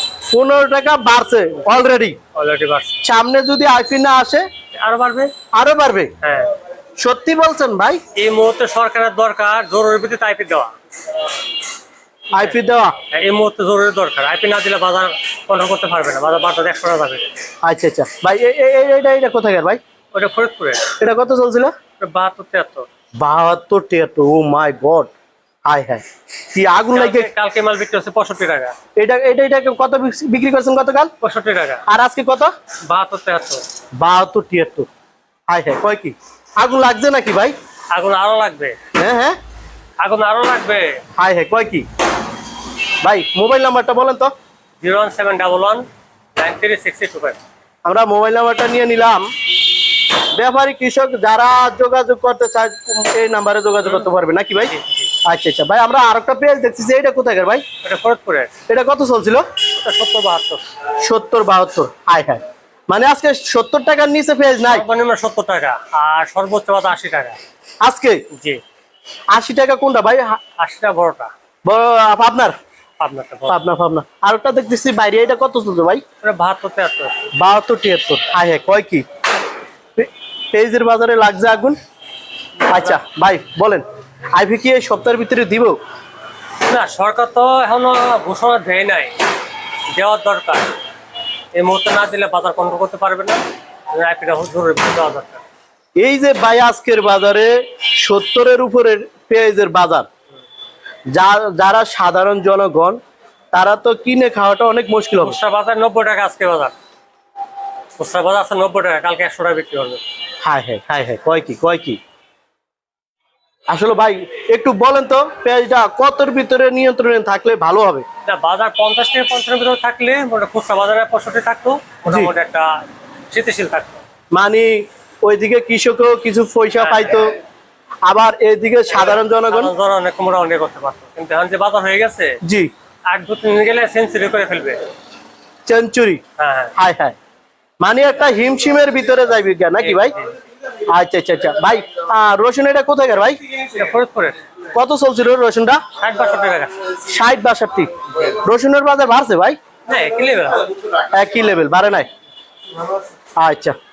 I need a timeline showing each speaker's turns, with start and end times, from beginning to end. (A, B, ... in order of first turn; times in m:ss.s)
0:00.3-0:02.2 A
0:02.3-0:03.0 B
0:03.0-0:04.5 A
0:04.7-0:05.3 B
0:05.5-0:06.1 A
0:06.2-0:06.5 B
0:07.0-0:08.0 A
0:08.1-0:10.7 B
0:12.3-0:12.9 A
0:13.1-0:17.3 B
0:17.6-0:19.8 A
0:20.1-0:20.9 B
0:21.0-0:21.7 A
0:22.0-0:22.9 B
0:23.2-0:25.1 A
0:25.6-0:27.3 A
0:26.9-0:28.7 B
0:29.0-0:31.1 A
0:31.2-0:31.8 B
0:31.9-0:32.5 A
0:32.9-0:33.6 B
0:34.0-0:34.9 A
0:35.5-0:37.6 A
0:37.9-0:38.8 B
0:38.9-0:39.4 A
0:40.0-0:41.0 B
0:41.2-0:41.8 A
0:43.0-0:44.3 A
0:44.8-0:47.4 B
0:47.8-0:49.3 A
0:50.3-0:54.7 A
0:54.6-0:55.1 B
0:55.2-0:57.6 A
0:57.8-0:58.5 B
0:58.7-0:59.4 A
0:59.8-1:00.6 B
1:01.0-1:04.8 A
1:04.6-1:07.4 B
1:07.8-1:08.2 A
1:08.3-1:08.6 B
1:09.3-1:10.4 A
1:10.6-1:11.3 B
1:11.6-1:12.6 A
1:13.0-1:13.6 B
1:13.5-1:16.0 A
1:16.2-1:17.2 B
1:17.3-1:19.0 A
1:20.0-1:21.8 A
1:22.6-1:23.0 B
1:22.7-1:23.8 A
1:24.4-1:25.8 A
1:26.6-1:29.1 B
1:29.9-1:30.7 B
1:31.5-1:35.4 B
1:36.0-1:40.1 A
1:41.1-1:43.0 A
1:43.5-1:45.4 A
1:45.2-1:46.7 B
1:48.0-1:50.0 B
1:50.4-1:52.0 A
1:53.7-1:58.0 A
1:58.2-2:04.0 B
2:02.0-2:02.3 A
2:04.3-2:07.3 A
2:06.8-2:07.3 B
2:08.1-2:09.7 A
2:08.9-2:12.3 B
2:12.4-2:12.7 A
2:13.1-2:14.8 B
2:15.6-2:16.2 A
2:16.4-2:16.7 B
2:16.8-2:17.2 A
2:17.8-2:20.1 A
2:19.8-2:20.3 B
2:20.9-2:23.4 A
2:23.7-2:24.4 B
2:24.7-2:25.8 A
2:26.0-2:26.7 B
2:27.0-2:29.6 A
2:29.9-2:30.7 B
2:31.0-2:32.1 A
2:33.4-2:33.8 A